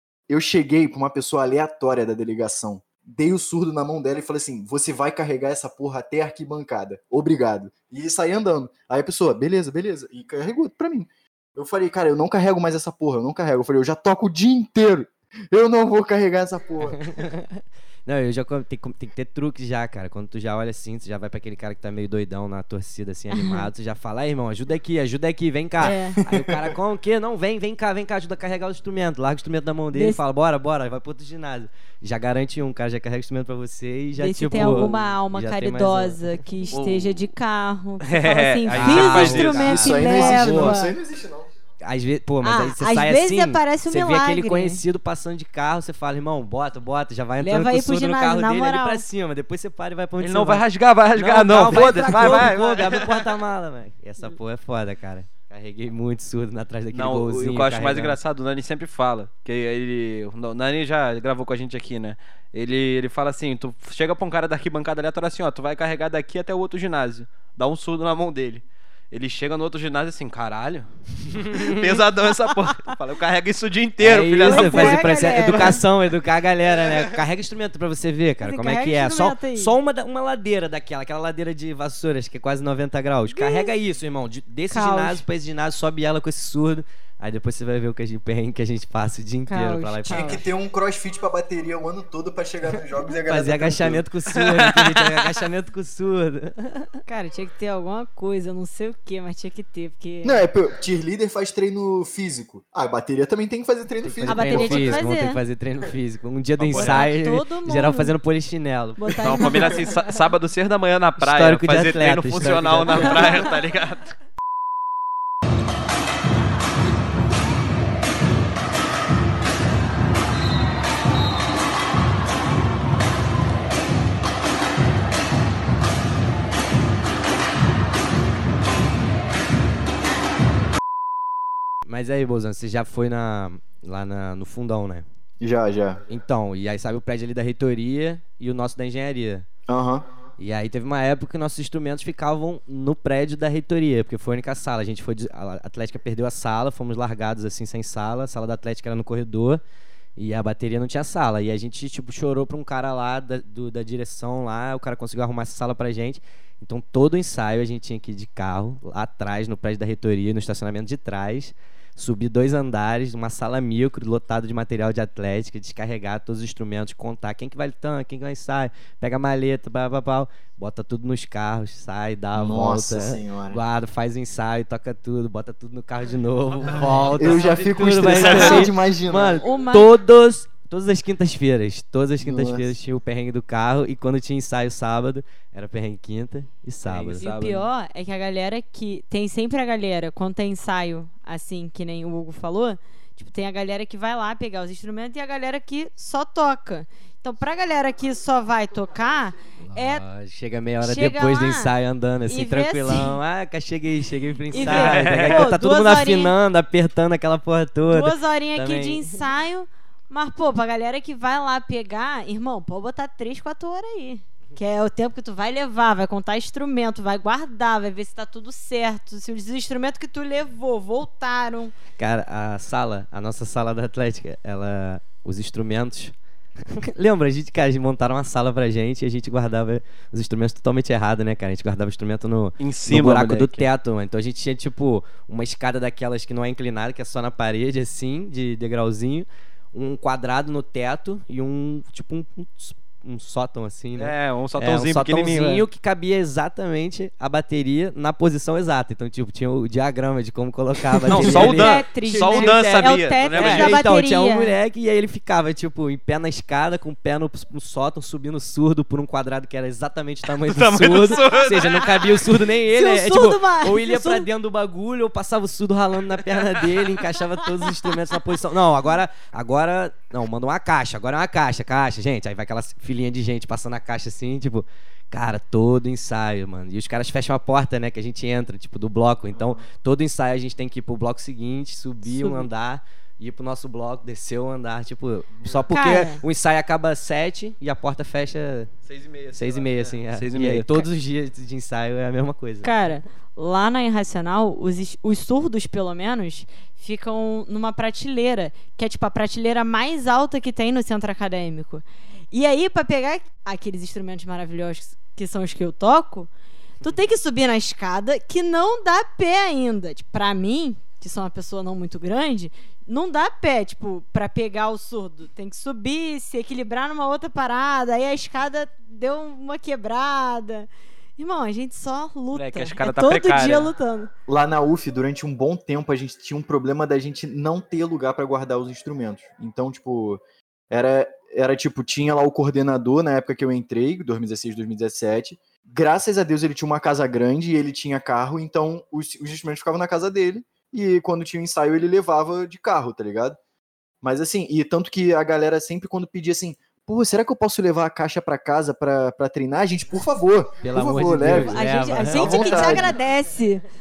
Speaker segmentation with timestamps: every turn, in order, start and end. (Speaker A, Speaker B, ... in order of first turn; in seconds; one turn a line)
Speaker A: 0.3-17.1
Speaker B: 17.0-36.2
Speaker C: 23.3-23.7
Speaker C: 25.8-26.2
Speaker A: 25.8-26.8
Speaker C: 29.9-30.2
Speaker C: 34.2-40.9
Speaker D: 36.7-37.3
Speaker D: 38.0-39.8
Speaker B: 38.7-40.8
Speaker A: 39.5-41.5
Speaker B: 41.8-58.2
Speaker C: 42.4-44.8
Speaker C: 47.4-49.0
Speaker D: 50.2-53.3
Speaker C: 51.7-52.5
Speaker D: 56.9-75.8
Speaker B: 71.3-72.0
Speaker B: 74.0-90.4
Speaker C: 74.4-75.8
Speaker C: 78.4-79.7
Speaker C: 83.3-83.7
Speaker C: 84.7-85.2
Speaker C: 89.5-90.4
Speaker A: 90.1-94.0
Speaker B: 93.2-97.0
Speaker D: 94.3-95.3
Speaker C: 97.0-100.4
Speaker A: 100.2-105.0
Speaker B: 104.0-109.2
Speaker C: 104.3-105.4
Speaker D: 106.6-107.1
Speaker C: 106.7-108.1
Speaker C: 109.0-110.2
Speaker D: 109.2-114.1
Speaker B: 111.2-113.5
Speaker B: 131.8-135.0
Speaker A: 135.4-136.0
Speaker B: 136.1-139.5
Speaker A: 139.7-140.1
Speaker B: 140.4-149.6
Speaker B: 150.2-187.2
Speaker A: 172.3-173.6
Speaker A: 177.1-179.4
Speaker D: 178.1-178.7
Speaker C: 178.3-178.7
Speaker C: 179.3-179.9
Speaker A: 182.2-182.7
Speaker D: 186.8-187.7
Speaker C: 187.2-200.0
Speaker B: 199.6-209.1
Speaker C: 200.8-201.7
Speaker C: 202.3-203.2
Speaker C: 204.5-206.3
Speaker D: 204.5-205.5
Speaker C: 207.9-221.7
Speaker B: 222.0-226.1
Speaker B: 226.7-251.8
Speaker D: 232.6-233.7
Speaker D: 244.0-245.6
Speaker D: 251.0-253.8
Speaker C: 251.1-254.5
Speaker A: 252.1-252.5
Speaker B: 253.3-288.7
Speaker D: 260.4-262.0
Speaker C: 262.7-264.3
Speaker C: 282.1-282.4
Speaker C: 285.7-286.2
Speaker D: 288.9-290.9
Speaker B: 289.3-292.7
Speaker C: 292.6-306.3
Speaker C: 306.8-324.1
Speaker D: 322.3-323.7
Speaker A: 324.3-343.4
Speaker A: 344.0-352.9
Speaker B: 350.6-352.9
Speaker C: 351.2-353.6